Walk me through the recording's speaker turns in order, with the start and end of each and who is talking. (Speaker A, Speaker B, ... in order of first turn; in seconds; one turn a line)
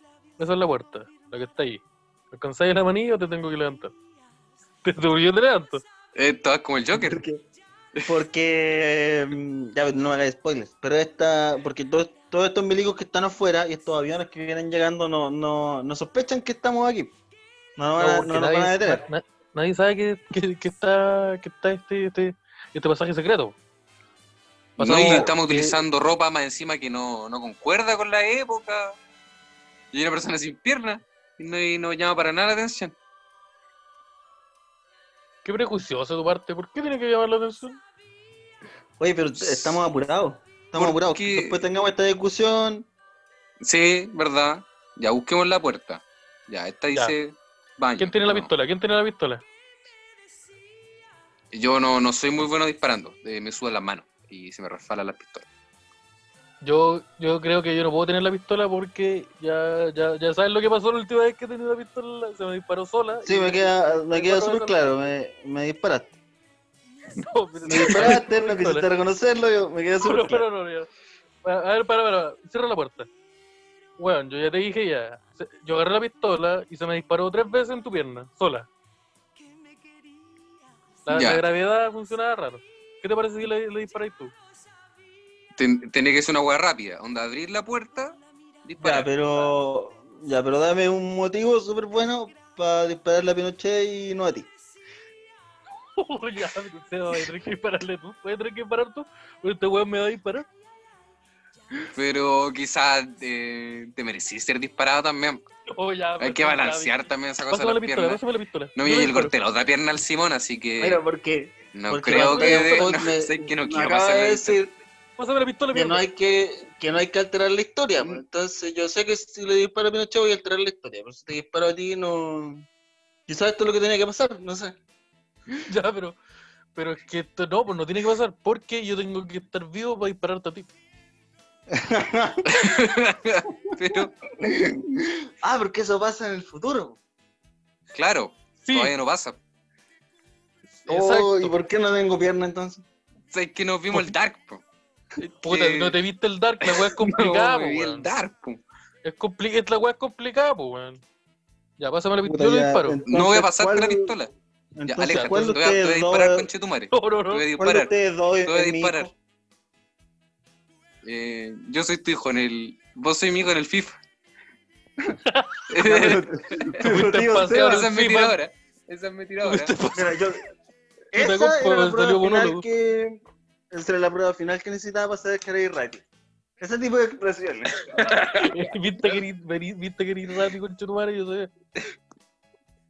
Speaker A: 0.4-3.9
Speaker A: 4.8-5.8
Speaker B: 6.2-7.2
Speaker C: 6.9-7.4
Speaker C: 8.0-17.1
Speaker C: 17.8-19.0
Speaker A: 18.0-23.6
Speaker A: 24.8-25.7
Speaker B: 24.8-28.9
Speaker C: 24.8-25.5
Speaker B: 29.9-32.9
Speaker A: 35.4-37.8
Speaker C: 39.0-42.9
Speaker B: 39.4-39.8
Speaker B: 40.8-41.6
Speaker B: 43.6-48.5
Speaker A: 48.0-49.4
Speaker B: 51.5-55.5
Speaker A: 56.6-65.1
Speaker C: 63.2-66.2
Speaker A: 67.1-68.9
Speaker C: 67.7-70.4
Speaker A: 70.0-70.9
Speaker A: 71.4-73.1
Speaker A: 74.0-78.7
Speaker A: 81.0-84.3
Speaker B: 81.1-81.4
Speaker B: 85.5-89.1
Speaker C: 88.8-94.5
Speaker A: 96.0-100.5
Speaker B: 101.9-105.4
Speaker A: 105.7-107.0
Speaker B: 106.2-108.2
Speaker A: 107.5-109.3
Speaker B: 108.8-111.0
Speaker C: 110.8-114.7
Speaker B: 111.7-114.6
Speaker A: 112.1-113.0
Speaker A: 115.2-116.0
Speaker C: 115.7-122.7
Speaker C: 123.3-124.8
Speaker A: 125.7-126.2
Speaker A: 126.7-130.7
Speaker C: 131.7-132.7
Speaker B: 132.5-134.1
Speaker C: 134.4-137.0
Speaker B: 137.9-139.4
Speaker A: 138.7-138.9
Speaker A: 140.8-141.6
Speaker C: 140.9-142.8
Speaker B: 143.3-144.6
Speaker A: 145.2-148.1
Speaker B: 145.4-146.0
Speaker B: 146.6-148.6
Speaker A: 149.0-151.0
Speaker A: 151.8-153.0
Speaker C: 152.2-154.1
Speaker B: 153.1-154.3
Speaker C: 154.8-156.5
Speaker B: 154.9-157.9
Speaker A: 155.0-155.6
Speaker A: 156.9-157.5
Speaker C: 157.6-159.1
Speaker B: 158.4-159.1
Speaker B: 161.0-164.0
Speaker A: 165.2-165.7
Speaker B: 165.7-169.7
Speaker C: 165.8-167.8
Speaker A: 166.8-168.3
Speaker A: 169.4-170.2
Speaker C: 169.9-170.5
Speaker C: 171.1-173.2
Speaker A: 171.2-172.6
Speaker C: 173.7-176.0
Speaker C: 176.6-178.1
Speaker B: 177.9-178.5
Speaker A: 178.3-181.5